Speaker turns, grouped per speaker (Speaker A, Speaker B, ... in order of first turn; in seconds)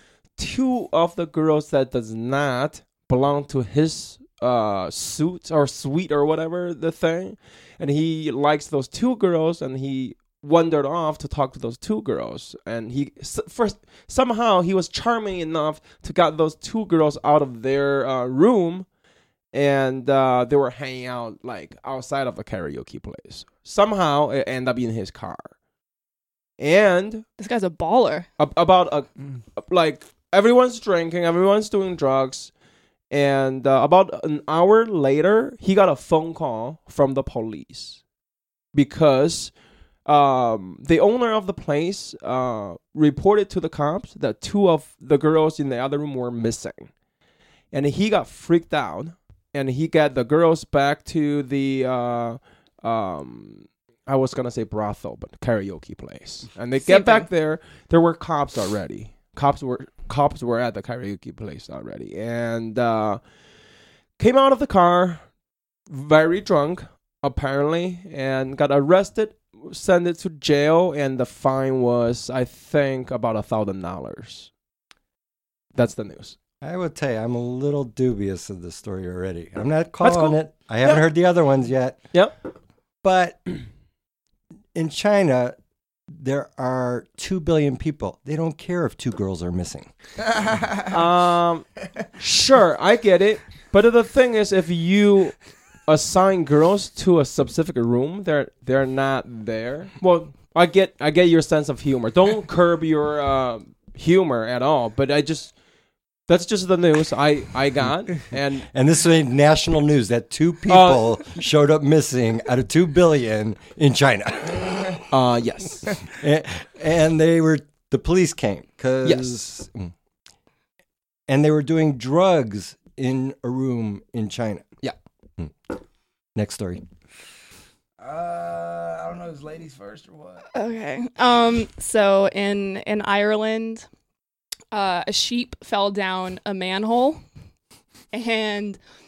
Speaker A: 0.4-18.9, 19.5-25.5, 26.6-27.2, 28.4-32.5, 33.1-38.0, 38.7-39.5, 40.0-46.9, 47.7-63.2, 64.2-65.2, 65.9-74.5, 75.7-76.3, 80.0-81.0, 90.9-105.5, 106.3-108.7, 110.7-111.2, 115.1-116.0
Speaker B: 27.4-28.3, 56.9-57.3, 130.5-133.9, 134.7-137.2, 138.1-138.8
Speaker C: 76.6-82.0, 83.0-83.5, 84.7-85.5, 86.1-89.9, 108.7-115.0, 116.1-119.9, 121.3-124.7, 126.3-126.8
Speaker D: 90.4-90.8, 128.0-130.4